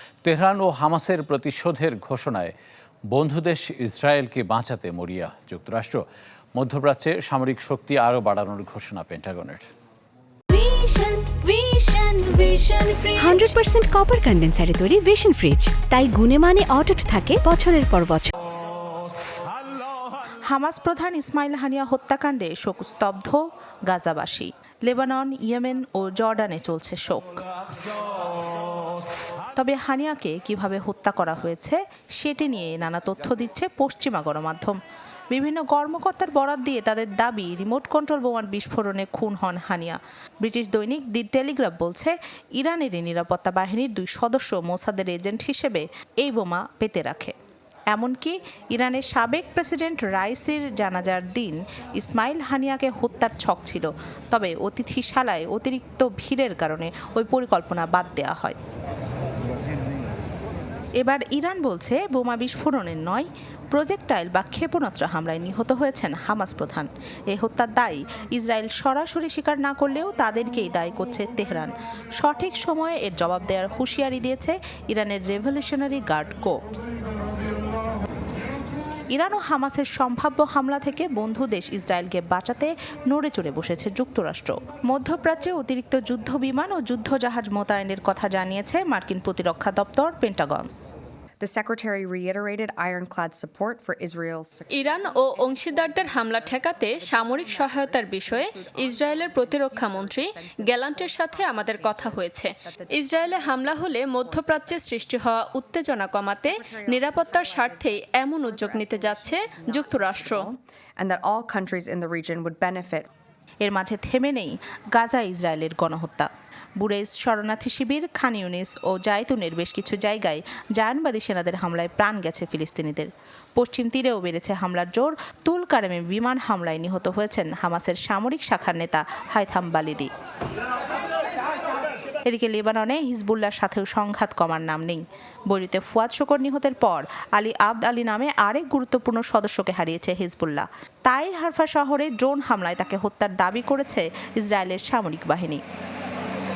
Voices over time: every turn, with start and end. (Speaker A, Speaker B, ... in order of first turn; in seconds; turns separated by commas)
Speaker A: 0.2-2.5, Speaker A: 3.1-6.0, Speaker A: 6.6-9.7, Speaker B: 10.5-13.6, Speaker C: 13.2-18.3, Speaker D: 20.5-27.5, Speaker D: 29.5-34.8, Speaker D: 35.3-47.3, Speaker D: 47.9-58.6, Speaker D: 61.0-76.9, Speaker D: 79.1-90.7, Speaker E: 91.4-105.1, Speaker B: 94.7-110.5, Speaker E: 106.3-113.1, Speaker D: 113.6-130.1, Speaker D: 132.3-145.6